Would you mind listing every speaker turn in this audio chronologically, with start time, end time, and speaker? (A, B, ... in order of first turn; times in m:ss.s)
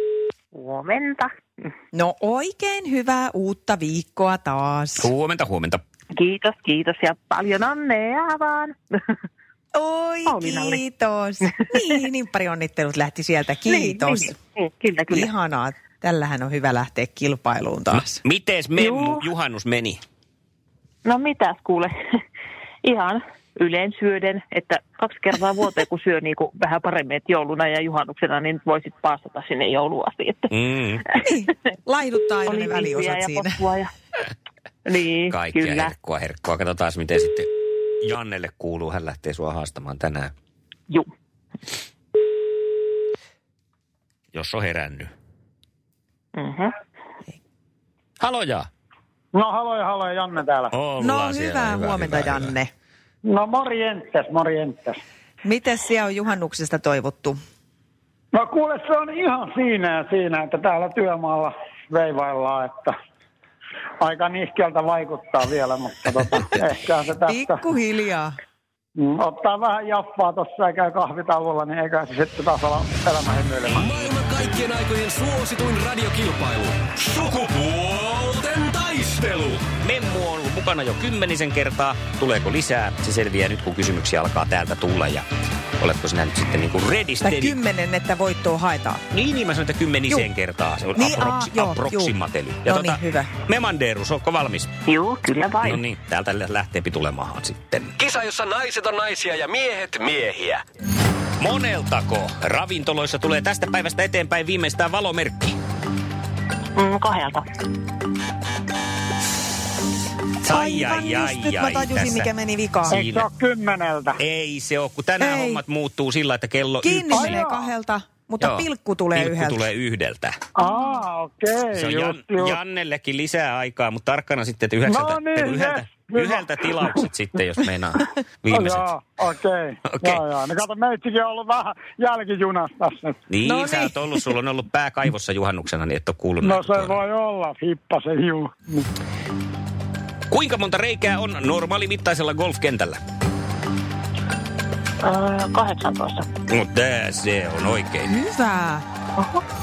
0:00.5-0:01.3 A
0:01.9-0:05.1 B
0:05.0-0:05.8 C
0:06.1-0:08.8 A
0:09.7-0:14.4 B
0:10.3-0:10.8 A
0:13.6-0:15.3 A
0:15.1-0:18.2 B
0:18.0-0:20.0 C
0:18.7-0:19.3 A
0:21.0-0:21.9 A
0:22.8-0:30.6 A
0:30.5-0:31.0 C
0:31.2-0:33.6 B
0:32.4-0:33.9 A
0:34.8-0:35.9 A
0:35.3-0:37.5 C
0:38.0-0:40.3 C
0:44.3-0:45.1 C
0:46.4-0:46.8 A
0:48.2-0:48.7 C
0:49.3-0:50.7 D
0:50.7-0:52.5 C
0:51.0-0:52.7 B
0:53.2-0:55.0 D
0:55.4-0:57.4 B
0:58.3-1:03.0 D
1:04.0-1:07.6 D
1:07.2-1:08.4 B
1:09.0-1:13.9 D
1:13.7-1:19.7 E
1:19.8-1:25.2 C
1:25.8-1:27.6 C
1:27.2-1:29.0 B
1:29.1-1:34.7 C
1:30.9-1:32.1 B
1:32.6-1:33.3 B
1:34.8-1:35.8 A
1:35.6-1:37.9 C
1:38.0-1:40.6 E
1:41.4-1:45.6 C
1:46.8-1:47.4 A
1:50.4-1:52.3 C
1:50.4-1:53.0 B
1:52.9-1:54.2 D
1:52.9-1:53.3 C
1:54.2-1:57.3 C
1:55.2-1:55.6 B
1:56.8-1:59.7 B
1:57.1-1:57.7 D
1:58.4-2:00.4 C
2:00.6-2:02.6 D
2:01.7-2:08.9 C
2:04.8-2:07.0 D
2:08.5-2:13.2 D
2:09.8-2:10.2 C
2:13.3-2:17.0 C
2:13.4-2:14.3 B
2:16.4-2:18.8 D
2:20.3-2:23.0 C
2:25.0-2:26.3 A
2:26.5-2:28.1 C
2:28.1-2:28.8 B